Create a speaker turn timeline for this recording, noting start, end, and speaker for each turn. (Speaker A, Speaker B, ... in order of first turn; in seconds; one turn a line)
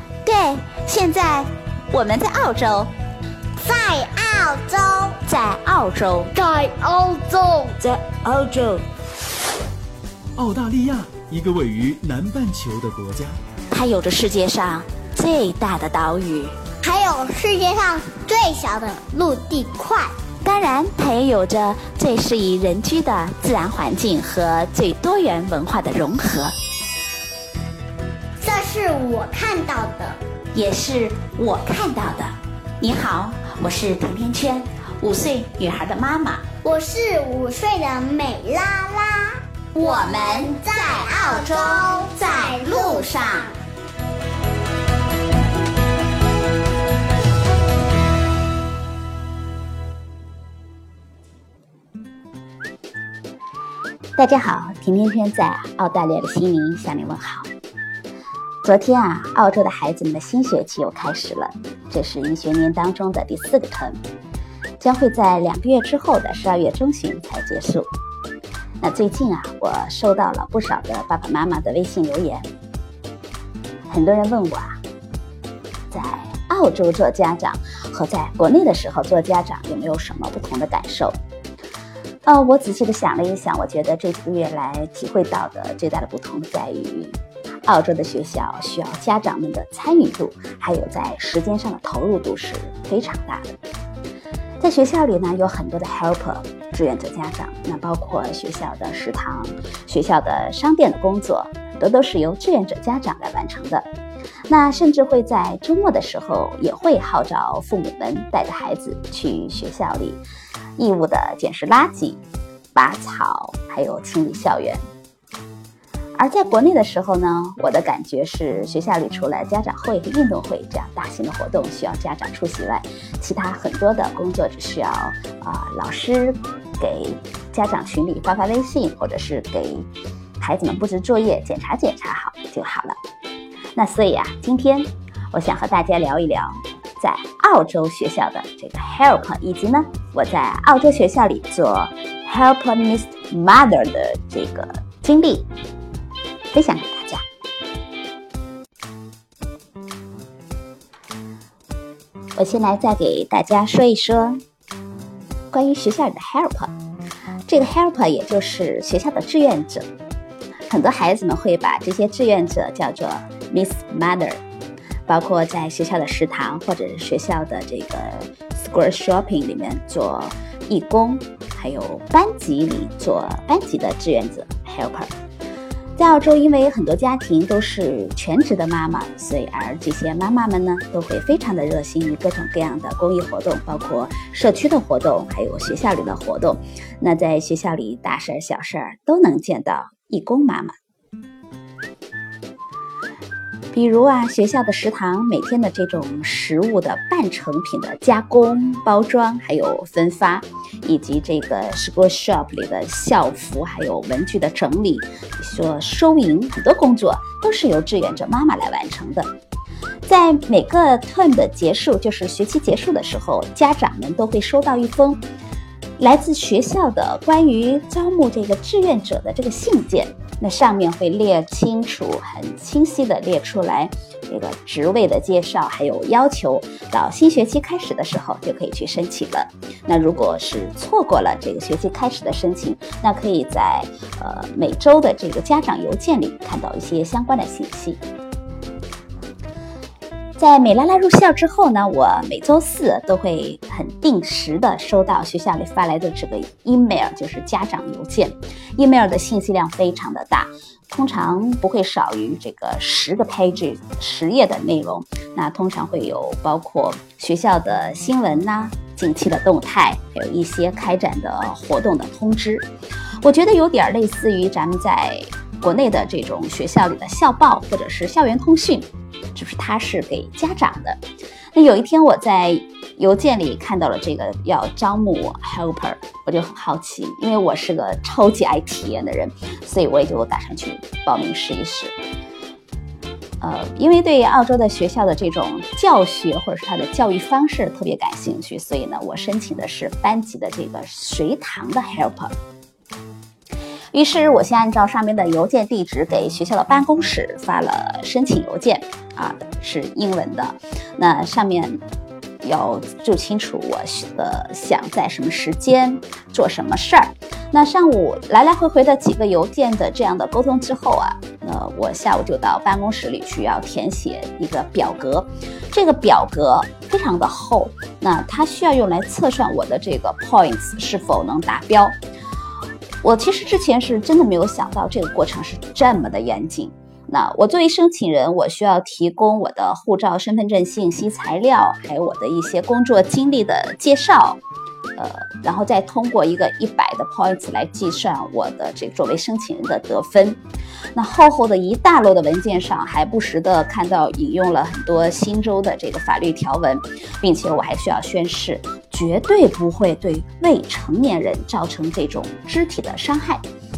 Speaker A: 0.2-2.9
Speaker B: 3.6-5.2
Speaker A: 5.2-6.3
Speaker B: 6.3-7.8
Speaker A: 7.8-8.8
Speaker C: 10.3-13.3
Speaker A: 13.7-16.5
Speaker B: 16.8-20.1
Speaker A: 20.4-26.5
Speaker B: 28.4-30.2
Speaker A: 30.5-36.5
Speaker B: 36.6-39.4
Speaker A: 39.7-43.5
Speaker B: 40.4-43.1
Speaker A: 54.1-57.5
Speaker A: 58.6-64.0
Speaker A: 64.8-67.9
Speaker A: 68.8-72.5
Speaker A: 73.9-74.8
Speaker A: 75.9-81.1
Speaker A: 82.2-93.6
Speaker A: 94.6-103.9
Speaker A: 104.5-110.2
Speaker A: 110.8-112.2
Speaker A: 112.7-114.8
Speaker A: 116.2-129.9
Speaker A: 130.4-133.0
Speaker A: 133.7-145.5
Speaker A: 146.5-147.2
Speaker A: 152.3-154.4
Speaker A: 155.5-156.7
Speaker A: 157.4-159.9
Speaker A: 160.7-164.4
Speaker A: 165.1-175.1
Speaker A: 176.0-190.7
Speaker A: 193.7-209.3
Speaker A: 210.0-215.2
Speaker A: 216.0-238.0
Speaker A: 240.4-262.7
Speaker A: 263.2-271.0
Speaker A: 271.5-281.9
Speaker A: 283.4-292.3
Speaker A: 293.9-301.8
Speaker A: 302.4-321.9
Speaker A: 323.0-334.4
Speaker A: 335.0-340.4
Speaker A: 340.9-353.4